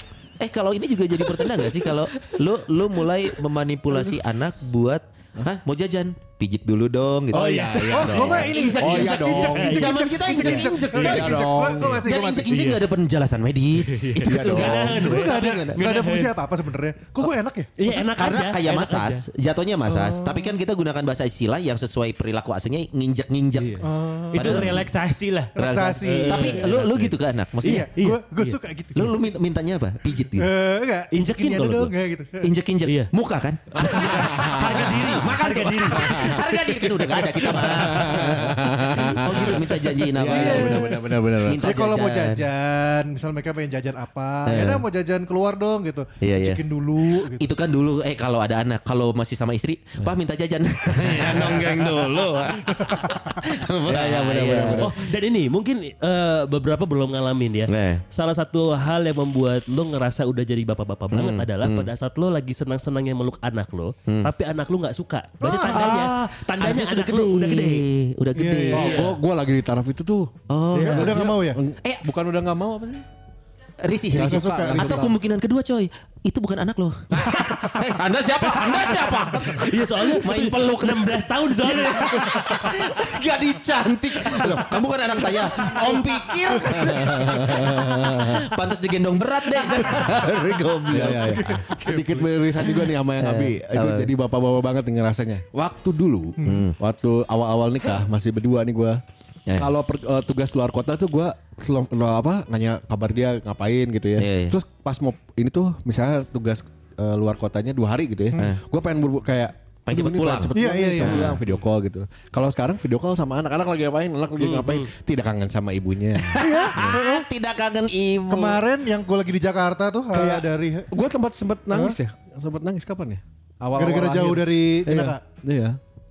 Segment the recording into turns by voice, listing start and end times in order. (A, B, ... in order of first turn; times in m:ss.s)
0:00.4-0:15.8 A
0:07.3-0:12.0 B
0:07.3-0:08.4 C
0:07.9-0:12.6 D
0:09.0-0:10.3 C
0:12.4-0:12.8 C
0:13.8-0:16.4 C
0:14.2-0:15.0 B
0:14.9-0:17.8 D
0:17.8-0:19.3 C
0:17.9-0:24.9 A
0:19.9-0:20.5 D
0:23.6-0:28.6 C
0:23.8-0:24.8 D
0:25.6-0:26.6 D
0:25.6-0:27.9 A
0:27.6-0:29.2 D
0:28.9-0:30.5 A
0:30.4-0:32.5 D
0:31.1-0:31.9 C
0:32.4-0:42.5 A
0:32.8-0:33.1 C
0:33.8-0:41.7 B
0:33.8-0:36.4 C
0:40.2-0:41.1 D
0:41.6-0:47.4 D
0:44.4-0:44.9 A
0:46.2-0:54.9 A
0:51.0-0:52.0 B
0:53.0-0:53.4 D
0:53.8-0:54.9 B
0:54.7-1:07.9 C
0:57.7-0:58.0 A
1:01.1-1:01.9 A
1:05.4-1:06.1 D
1:05.6-1:09.1 A
1:08.4-1:09.1 D
1:08.7-1:13.0 B
1:10.5-1:12.0 A
1:10.7-1:11.2 C
1:10.8-1:11.6 D
1:13.8-1:31.4 A
1:14.1-1:15.1 B
1:14.2-1:15.1 D
1:17.1-1:17.4 B
1:17.3-1:17.6 D
1:19.5-1:22.4 C
1:21.9-1:22.9 D
1:25.4-1:27.4 D
1:26.6-1:28.5 B
1:29.6-1:30.2 D
1:30.9-1:39.0 B
1:30.9-1:32.4 D
1:32.8-1:34.1 A
1:36.4-1:36.8 A
1:39.6-1:57.0 B
1:44.2-1:44.6 A
1:49.9-1:51.4 A
1:50.5-1:51.4 D
1:54.4-1:54.9 C
1:56.2-1:58.6 A
1:56.4-1:57.3 D
1:58.3-2:01.0 D
2:00.1-2:05.8 B
2:01.7-2:02.0 D
2:03.8-2:05.2 D